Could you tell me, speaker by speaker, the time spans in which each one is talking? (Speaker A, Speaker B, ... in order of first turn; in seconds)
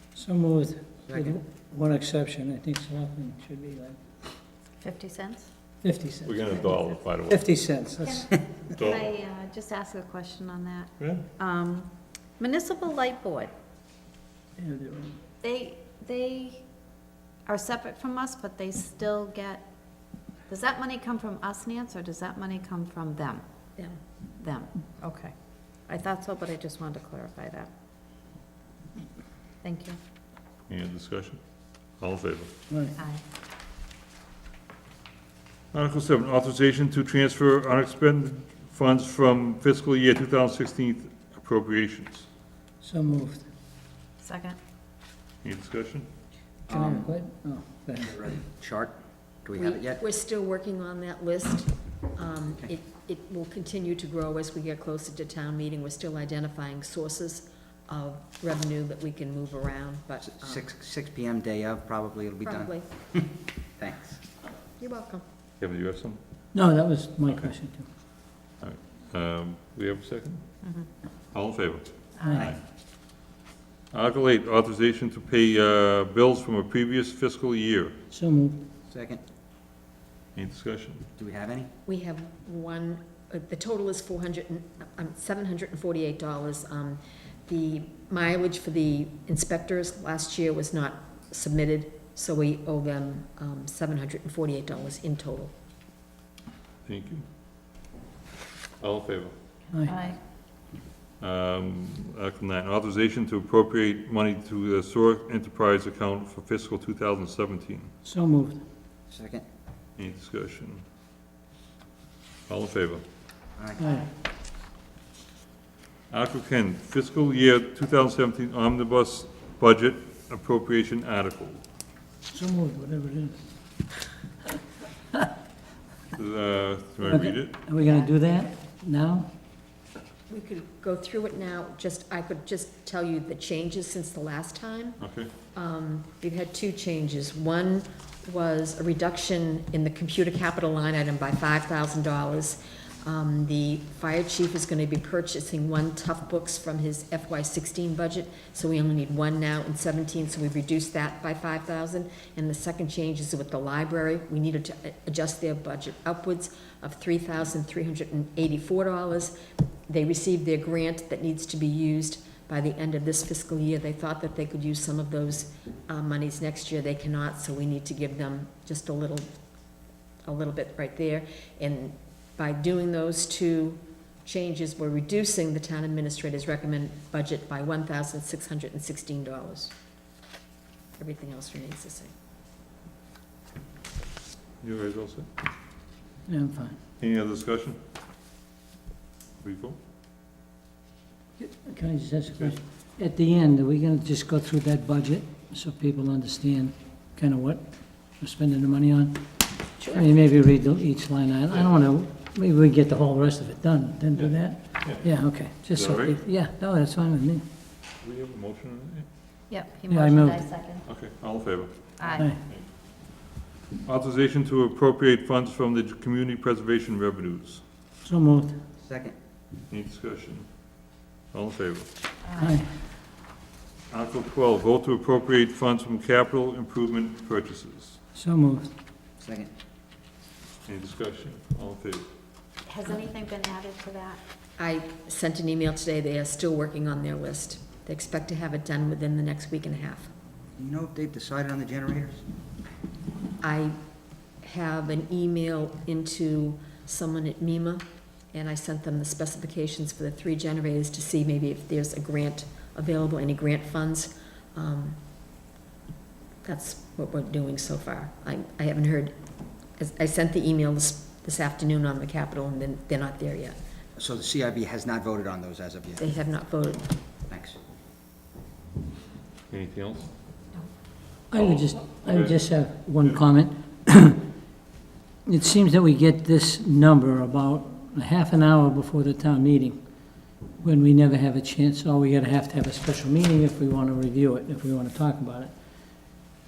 Speaker A: 0.1-4.0, 5.8-8.3, 14.6-15.2, 32.7-33.0, 42.8-43.5, 46.7-48.2, 66.5-67.9, 78.1-78.6, 108.0-108.6, 113.8-114.1, 122.3-123.6, 127.0-129.3, 186.3-186.8, 191.4-207.4, 209.9-210.5, 218.0-218.6, 222.4-222.7, 228.2-228.7, 271.3-274.3, 275.2-286.1
Speaker B: 1.1-1.4, 46.7-47.1, 48.0-50.0, 60.2-63.3, 63.8-64.2, 78.9-79.2, 81.2-81.7, 109.1-109.5, 113.6-113.8, 218.8-219.2, 229.2-229.5, 240.6-242.2, 264.0-266.1, 267.3-267.6
Speaker C: 4.8-5.5, 8.1-13.5, 15.4-16.6, 17.5-19.7, 20.5-23.4, 24.4-25.3, 25.9-27.7, 29.6-30.0, 44.2-44.6, 99.9-100.2, 209.5-210.8, 212.0-212.3, 222.2-222.5, 232.7-234.2
Speaker D: 6.2-7.5, 8.8-9.1, 11.0-11.2, 30.7-31.4, 32.0-32.5, 35.7-42.3, 45.4-46.1, 65.6-66.2, 68.6-70.4, 71.3-72.6, 73.9-78.0, 80.3-81.0, 96.8-97.2, 98.8-99.3, 101.2-107.9, 110.0-110.8, 112.5-113.0, 116.1-121.6, 126.1-127.6, 135.0-135.3, 184.6-185.3, 187.0-187.8, 189.4-189.8, 204.2-206.2, 208.0-209.1, 210.8-212.8, 213.8-217.6, 219.7-220.5, 221.3-221.9, 223.9-228.0, 230.7-232.1, 269.5-270.1, 271.4-272.4
Speaker E: 49.5-60.6, 62.4-62.9, 64.8-65.2, 81.9-95.5, 130.3-135.0, 135.5-159.3, 159.9-169.3, 170.3-179.7, 181.0-182.1, 234.6-240.1, 243.4-243.8, 244.4-255.0, 256.4-259.2, 259.8-263.6, 266.0-266.9